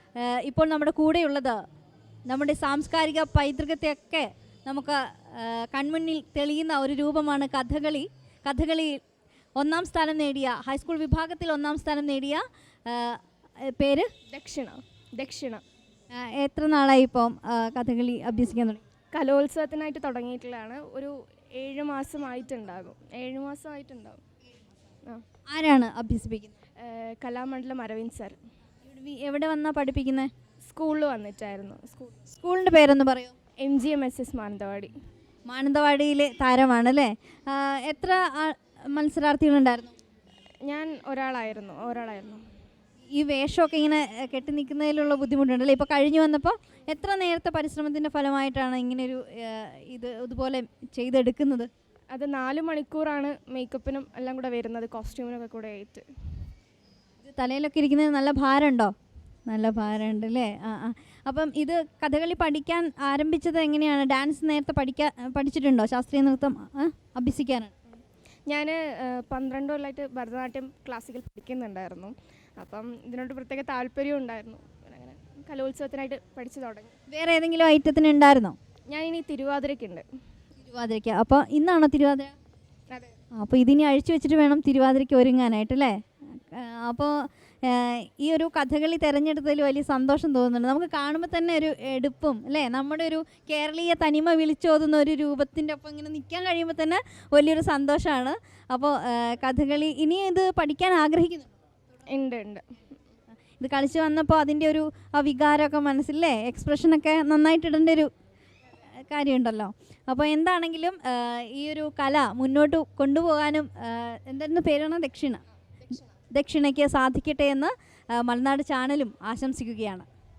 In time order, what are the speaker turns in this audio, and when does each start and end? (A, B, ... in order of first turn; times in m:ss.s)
0:00.2-0:01.6 A
0:02.3-0:09.0 A
0:09.6-0:14.1 A
0:14.3-0:15.6 B
0:16.1-0:18.8 A
0:19.1-0:24.2 B
0:25.5-0:26.5 A
0:26.8-0:28.4 B
0:28.8-0:30.3 A
0:30.7-0:32.2 B
0:32.3-0:33.3 A
0:33.6-0:34.9 B
0:35.5-0:39.9 A
0:40.6-0:42.4 B
0:43.1-0:51.7 A
0:52.1-0:56.1 B
0:57.2-0:58.9 A
0:59.5-1:07.7 A
1:08.5-1:16.9 B
1:17.1-1:18.6 A
1:18.9-1:20.0 B
1:20.6-1:22.3 A
1:23.3-1:41.5 A
1:42.1-1:42.6 B
1:43.6-1:48.1 A
1:48.8-1:55.4 A
1:56.3-2:00.1 A